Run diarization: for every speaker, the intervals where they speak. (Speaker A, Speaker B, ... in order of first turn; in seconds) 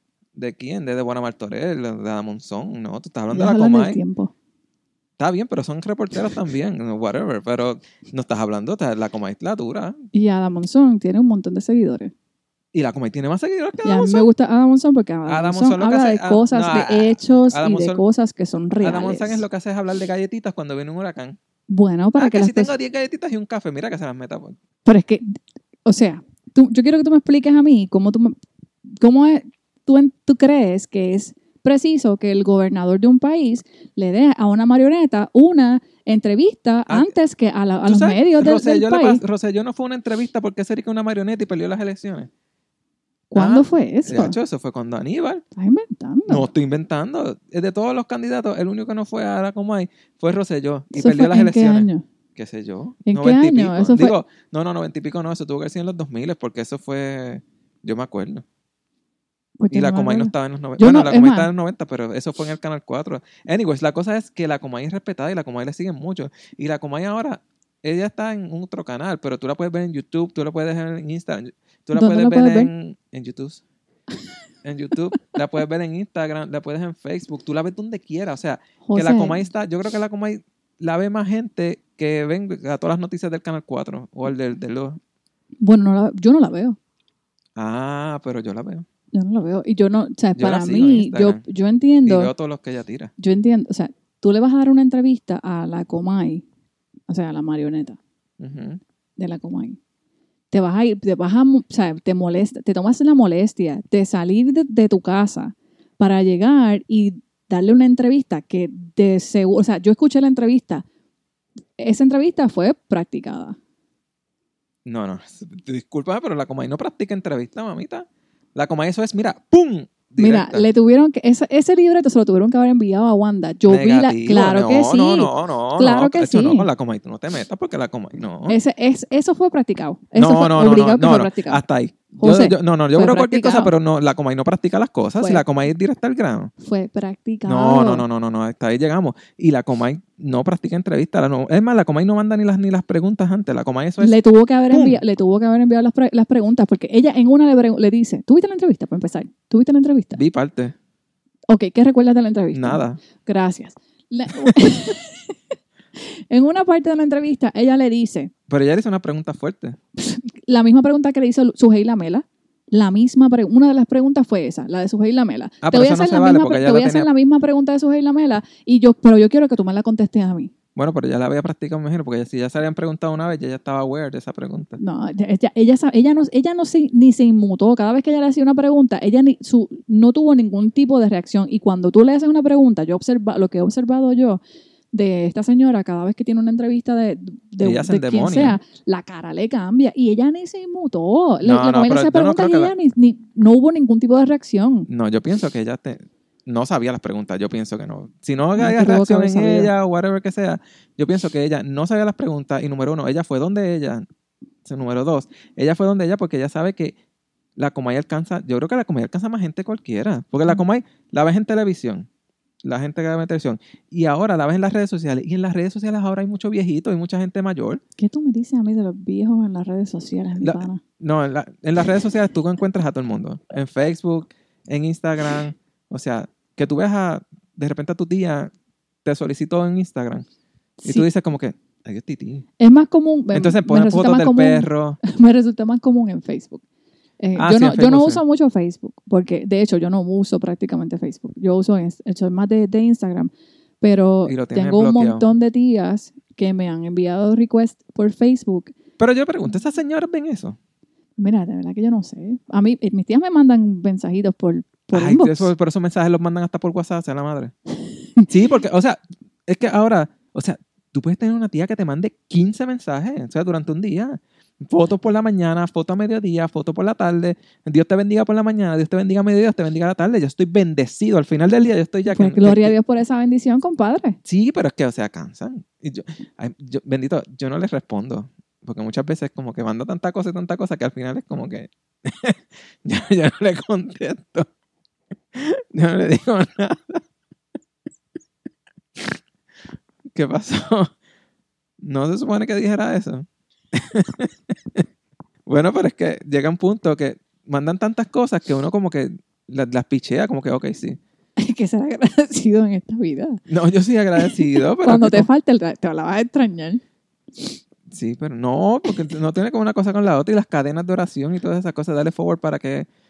Speaker A: 0.4-4.0, 5.2-10.0, 12.7-14.3, 15.3-18.0, 18.8-21.4, 22.2-24.6, 37.9-42.3, 43.4-45.4, 46.3-58.4, 59.7-73.6, 74.6-85.0, 87.6-88.9, 90.4-91.4, 92.0-93.1, 98.4-98.8, 114.8-120.7, 123.7-128.6, 130.2-136.5, 137.5-144.2, 144.7-145.0, 150.1-150.7, 152.5-153.0, 154.4-154.7, 158.5-159.8, 165.6-167.1, 170.8-174.8, 187.6-188.6, 191.4-192.7, 194.9-204.1, 204.7-207.0, 207.6-212.1, 212.6-217.8, 220.4-228.5, 229.1-230.3, 230.8-232.4, 233.3-235.0, 237.3-238.2, 244.3-245.3, 249.0-250.6, 254.9-257.5, 258.3-272.7, 274.2-284.5, 285.3-287.0, 290.1-290.9, 291.8-294.9, 295.5-301.0, 303.5-305.3, 307.9-312.9
Speaker B: 3.3-4.3, 10.1-12.1, 13.8-19.4, 21.7-22.7, 24.9-28.4, 29.0-39.2, 43.3-44.4, 45.6-46.5, 50.9-52.0, 53.1-54.1, 59.6-61.5, 72.0-72.7, 78.8-79.5, 85.6-86.8, 89.1-92.3, 93.2-96.5, 97.1-98.0, 99.2-99.8, 100.5-110.8, 111.8-113.6, 120.2-126.7, 128.5-131.6, 132.2-133.7, 135.2-135.4, 136.6-138.1, 144.0-150.2, 151.5-155.4, 156.0-158.3, 160.0-170.5, 174.8-184.4, 184.9-194.9, 198.6-199.7, 218.0-220.8, 230.8-231.1, 232.6-236.6, 237.2-248.7, 251.2-255.5, 257.9-258.3, 272.1-274.2, 301.4-303.4, 304.2-306.8